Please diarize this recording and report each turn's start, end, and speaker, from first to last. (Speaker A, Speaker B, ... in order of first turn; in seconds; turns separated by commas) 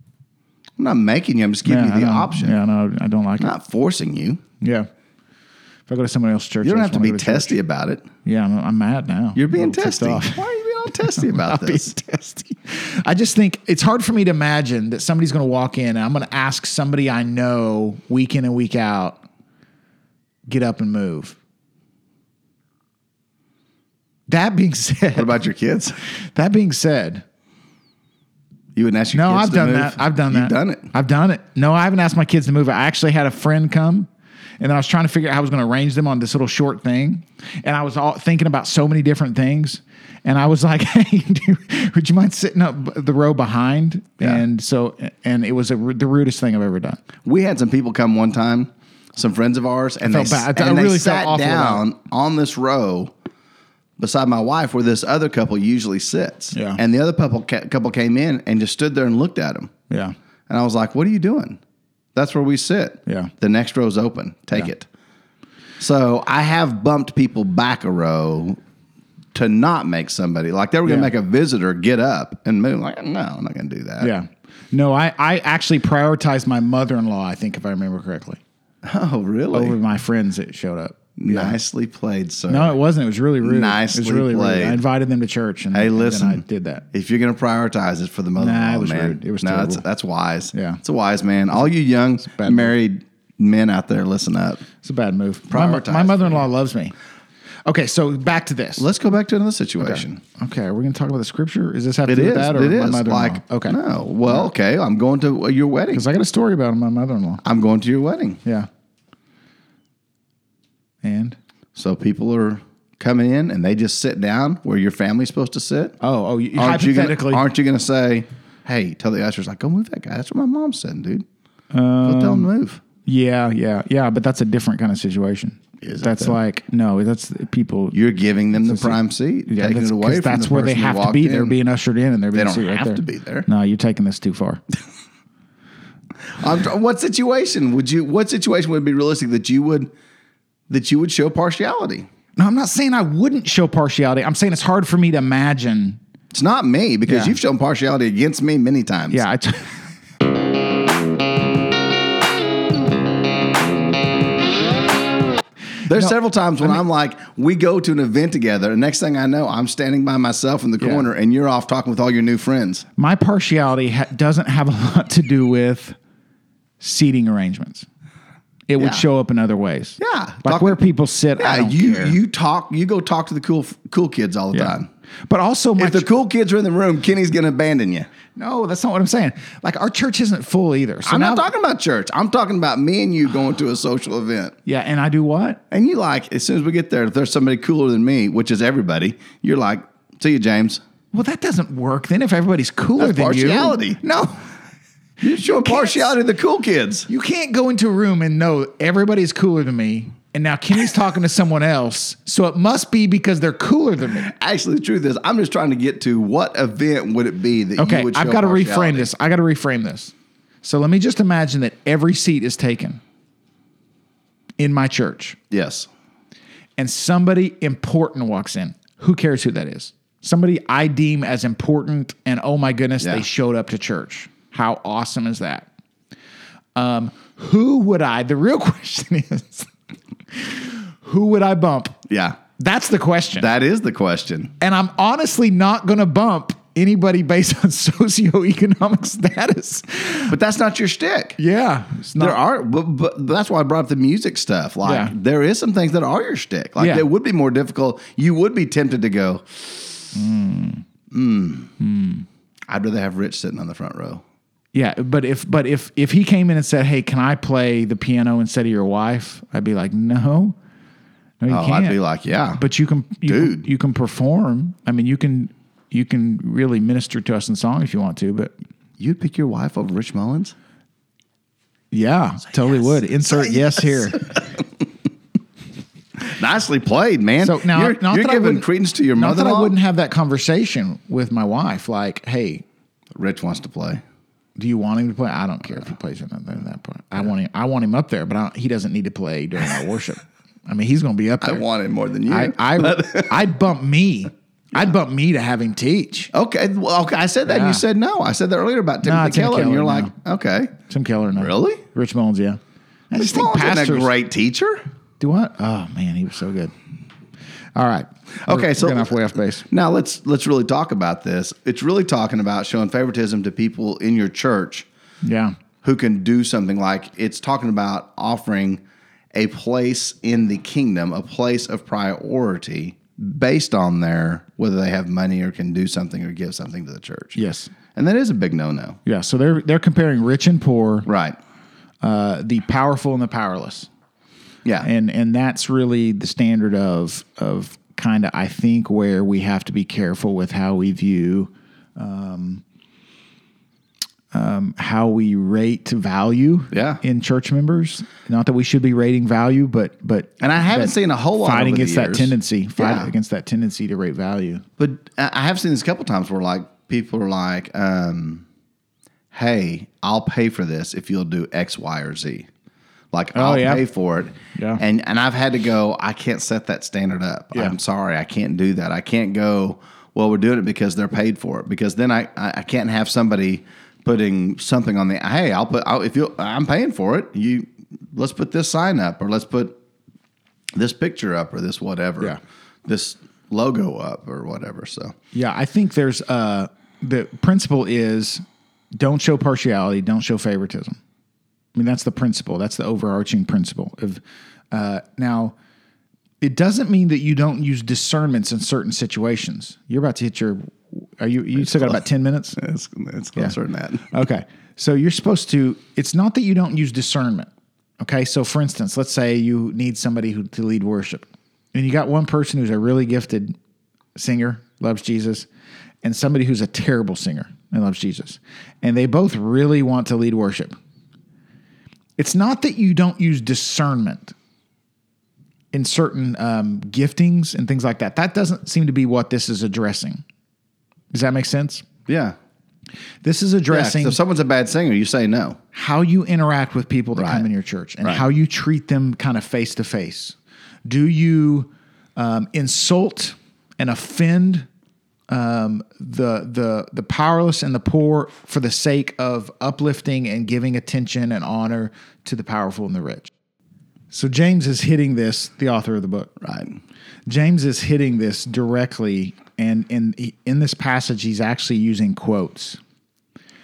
Speaker A: 0.8-2.5, Speaker B: 1.6-3.5, Speaker A: 3.4-4.4, Speaker B: 4.6-4.9, Speaker B: 5.9-7.6, Speaker A: 6.6-8.1, Speaker B: 8.2-10.4, Speaker A: 9.3-11.9, Speaker B: 11.1-19.2, Speaker B: 20.5-21.4, Speaker B: 24.3-25.4, Speaker A: 25.1-26.0, Speaker B: 26.4-27.2, Speaker A: 28.8-30.9, Speaker B: 29.1-34.1, Speaker B: 34.6-47.0, Speaker A: 47.2-53.1, Speaker B: 50.0-51.8, Speaker A: 54.0-59.7, Speaker B: 56.5-56.8, Speaker B: 59.9-60.1, Speaker A: 60.5-61.6, Speaker A: 62.1-64.9, Speaker B: 63.1-63.3, Speaker A: 65.8-68.6, Speaker A: 69.3-74.1, Speaker B: 70.8-71.1, Speaker B: 74.0-78.4, Speaker A: 78.8-79.8, Speaker B: 79.5-81.6, Speaker A: 81.2-82.8, Speaker B: 82.5-86.8, Speaker A: 83.4-84.8, Speaker A: 85.7-94.6, Speaker B: 88.4-89.8, Speaker B: 90.5-90.8, Speaker B: 92.3-92.8, Speaker B: 94.8-97.0, Speaker A: 95.5-96.5, Speaker B: 97.7-98.9, Speaker A: 98.8-100.2, Speaker B: 99.8-104.5, Speaker A: 102.1-106.0, Speaker B: 105.9-107.4, Speaker A: 107.4-108.4, Speaker B: 111.0-111.4, Speaker A: 111.8-116.0, Speaker B: 116.0-117.4, Speaker A: 116.6-121.3, Speaker B: 121.7-122.5, Speaker A: 122.0-122.8, Speaker B: 123.0-128.0, Speaker A: 125.8-126.4, Speaker A: 127.9-131.6, Speaker B: 128.6-134.6, Speaker A: 132.3-133.5, Speaker A: 136.3-139.9, Speaker A: 140.7-142.1, Speaker B: 142.4-146.0, Speaker A: 146.3-149.2, Speaker B: 147.1-147.4, Speaker B: 149.1-149.8, Speaker B: 155.9-156.8, Speaker A: 155.9-162.9, Speaker B: 160.8-161.1, Speaker B: 163.0-166.0, Speaker B: 166.8-167.9, Speaker B: 168.7-172.2, Speaker A: 168.8-169.0, Speaker A: 170.0-170.8, Speaker A: 171.4-174.9, Speaker B: 175.3-176.1, Speaker A: 175.8-178.1, Speaker B: 178.4-181.5, Speaker A: 181.1-184.6, Speaker B: 184.7-185.6, Speaker A: 185.7-190.8, Speaker B: 191.1-194.4, Speaker A: 193.0-194.0, Speaker A: 195.2-197.1, Speaker B: 195.2-196.2, Speaker B: 197.1-204.3, Speaker A: 204.2-209.1, Speaker B: 207.8-213.0, Speaker B: 214.6-215.4, Speaker A: 215.5-215.9, Speaker B: 216.8-225.7, Speaker B: 226.8-229.7, Speaker B: 230.3-232.0, Speaker A: 232.1-232.4, Speaker B: 232.6-233.5, Speaker A: 233.4-234.5, Speaker B: 234.6-240.3, Speaker A: 240.3-241.4, Speaker B: 241.4-242.4, Speaker A: 242.2-250.1, Speaker B: 244.8-245.1, Speaker B: 246.8-247.1, Speaker B: 250.1-250.8, Speaker A: 251.1-251.7, Speaker B: 251.8-252.3, Speaker A: 252.7-254.2, Speaker B: 254.7-260.6, Speaker B: 261.4-262.0, Speaker A: 261.5-262.6, Speaker B: 262.6-268.5, Speaker A: 263.3-263.7, Speaker A: 269.0-270.6, Speaker B: 271.9-274.4, Speaker A: 272.9-274.6, Speaker A: 276.2-279.8, Speaker B: 277.4-282.6, Speaker A: 283.1-284.0, Speaker B: 284.6-291.6, Speaker A: 291.4-293.5, Speaker B: 292.3-296.3, Speaker A: 296.3-300.8, Speaker B: 297.5-297.8, Speaker B: 299.0-300.1, Speaker B: 300.9-302.6, Speaker A: 301.4-301.8, Speaker B: 303.1-304.1, Speaker A: 303.2-304.8, Speaker B: 305.2-306.7, Speaker B: 307.8-309.7, Speaker A: 308.4-314.9, Speaker B: 315.2-315.6, Speaker A: 315.8-318.8, Speaker A: 319.3-327.4, Speaker B: 327.4-327.7, Speaker A: 327.9-329.0, Speaker B: 329.1-331.1, Speaker A: 331.1-331.4, Speaker B: 332.0-333.9, Speaker B: 334.8-342.6, Speaker B: 344.3-354.6, Speaker A: 346.7-347.0, Speaker A: 350.4-353.1, Speaker A: 354.8-358.4, Speaker A: 359.3-362.5, Speaker A: 363.1-379.8, Speaker B: 363.4-363.8, Speaker B: 364.6-364.8, Speaker A: 380.8-385.1, Speaker B: 385.3-388.4, Speaker B: 389.0-391.0, Speaker B: 391.8-395.6, Speaker B: 396.4-402.6, Speaker A: 401.6-402.0, Speaker A: 402.6-404.2, Speaker B: 404.1-407.5, Speaker B: 408.0-413.6, Speaker B: 414.1-415.5, Speaker B: 416.0-420.8, Speaker B: 422.2-424.3, Speaker B: 425.7-430.2, Speaker B: 431.1-431.9, Speaker A: 432.1-432.4, Speaker B: 433.2-434.2, Speaker A: 433.7-435.6, Speaker B: 435.7-444.7, Speaker A: 437.2-437.5, Speaker B: 445.3-453.3, Speaker B: 454.1-456.4, Speaker A: 456.4-456.8, Speaker B: 457.3-462.8